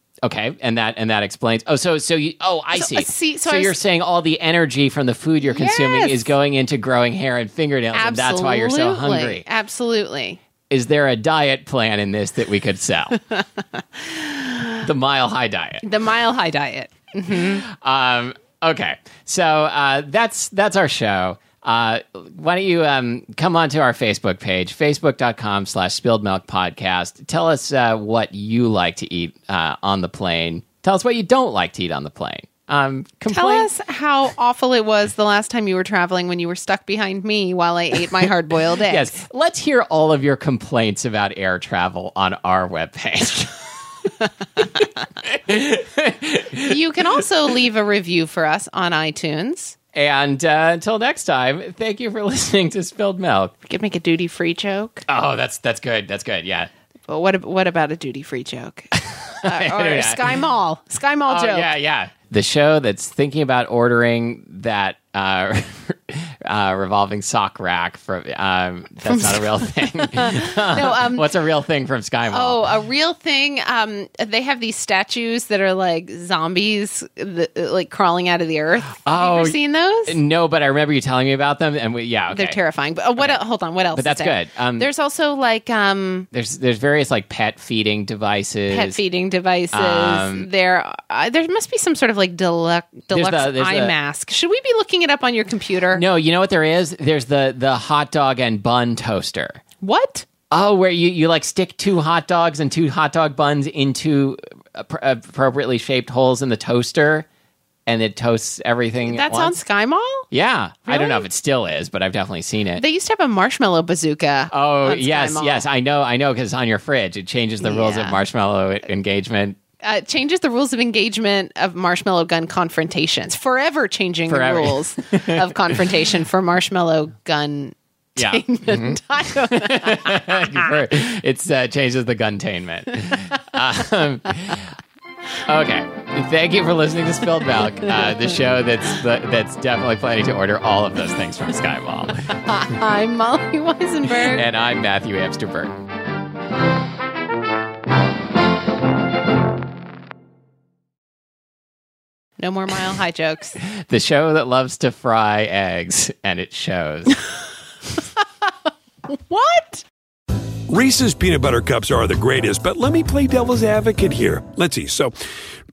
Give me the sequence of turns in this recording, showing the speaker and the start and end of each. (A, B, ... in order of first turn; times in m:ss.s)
0:00.2-0:09.4 A
0:02.7-0:03.8 B
0:05.4-0:06.3 B
0:07.9-0:10.4 B
0:10.7-0:13.2 A
0:13.3-0:14.7 B
0:14.8-0:15.8 A
0:15.8-0:17.6 B
0:17.3-0:33.7 A
0:33.3-0:39.2 B
0:38.9-0:43.5 A
0:44.6-0:46.8 A
0:46.6-0:49.8 B
0:49.9-0:53.5 A
0:53.6-0:55.0 B
0:55.1-0:56.7 A
0:57.1-1:01.7 B
0:59.0-1:00.4 A
1:01.3-1:12.8 A
1:09.1-1:11.3 B
1:12.3-1:20.2 B
1:19.0-1:22.6 A
1:22.3-1:26.3 B
1:23.9-1:24.9 A
1:26.3-1:29.0 A
1:28.7-1:36.0 B
1:29.7-1:30.5 A
1:33.1-1:33.9 A
1:35.9-1:39.6 A
1:39.8-1:40.3 B
1:40.5-1:47.3 A
1:47.9-1:49.6 A
1:49.1-1:50.2 B
1:50.3-1:52.8 A
1:50.9-1:51.3 B
1:52.8-1:55.6 B
1:54.5-1:59.6 A
1:57.6-1:58.2 B
1:59.8-2:10.7 B
2:04.3-2:05.8 A
2:08.2-2:14.7 A
2:15.5-2:22.4 A
2:22.3-2:24.4 B
2:24.2-2:25.7 A
2:32.4-2:33.6 B
2:33.6-2:37.2 A
2:39.1-2:39.8 B
2:40.7-2:45.1 C